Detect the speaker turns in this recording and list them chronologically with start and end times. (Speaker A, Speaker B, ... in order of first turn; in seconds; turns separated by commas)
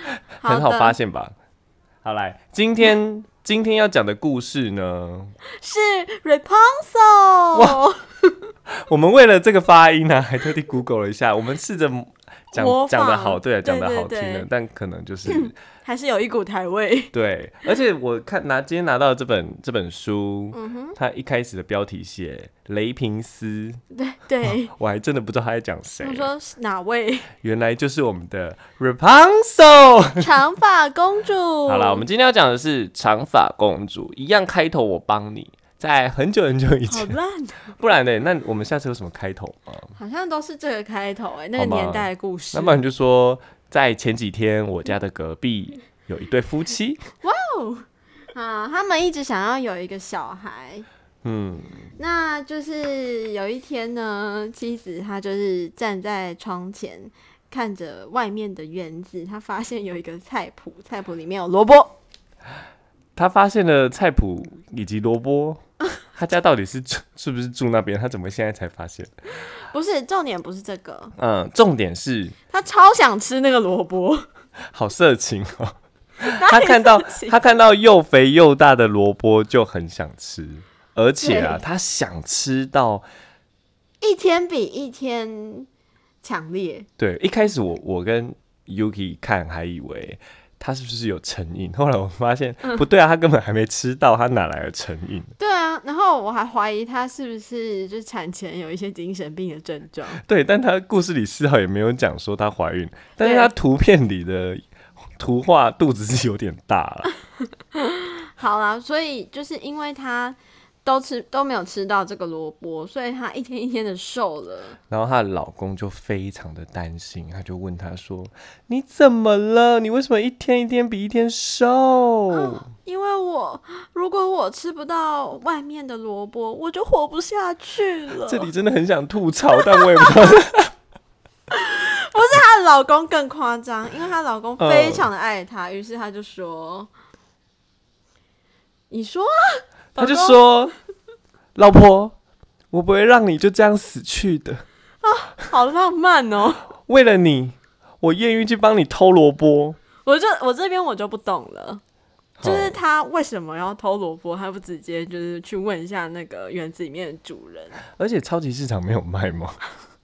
Speaker A: 0.4-1.0, Speaker B: 0.4-1.4, Speaker B: 2.0-5.3, Speaker A: 5.5-8.5, Speaker B: 7.5-7.8, Speaker B: 8.7-15.5, Speaker A: 12.5-14.5, Speaker A: 15.3-17.1, Speaker B: 17.1-23.8, Speaker A: 20.5-21.0, Speaker A: 23.9-24.7, Speaker B: 24.7-26.3, Speaker A: 26.0-27.3, Speaker B: 27.4-30.3, Speaker A: 30.2-32.0, Speaker B: 31.7-37.1, Speaker A: 36.9-37.8, Speaker B: 37.7-39.9, Speaker A: 40.0-42.8, Speaker B: 41.6-47.0, Speaker A: 47.2-50.9, Speaker B: 51.2-51.9, Speaker A: 52.0-62.0, Speaker B: 63.2-69.1, Speaker A: 69.6-71.1, Speaker B: 71.2-72.4, Speaker A: 72.5-74.3, Speaker B: 74.7-83.0, Speaker A: 76.2-77.4, Speaker A: 81.2-81.6, Speaker A: 84.0-85.7, Speaker A: 86.2-86.9, Speaker B: 87.0-95.3, Speaker A: 95.4-100.2, Speaker B: 100.2-104.6, Speaker A: 103.2-103.5, Speaker B: 105.2-107.1, Speaker A: 107.7-114.8, Speaker B: 114.9-122.7, Speaker A: 122.3-128.5, Speaker B: 128.2-130.7, Speaker A: 129.6-130.3, Speaker A: 131.5-136.9, Speaker B: 134.6-135.1, Speaker A: 138.9-140.4, Speaker B: 140.0-140.8, Speaker B: 141.6-142.2, Speaker B: 142.7-144.7, Speaker A: 145.0-146.6, Speaker B: 146.9-149.8, Speaker A: 150.0-151.8, Speaker B: 152.4-152.8, Speaker A: 152.4-157.8, Speaker B: 158.0-159.6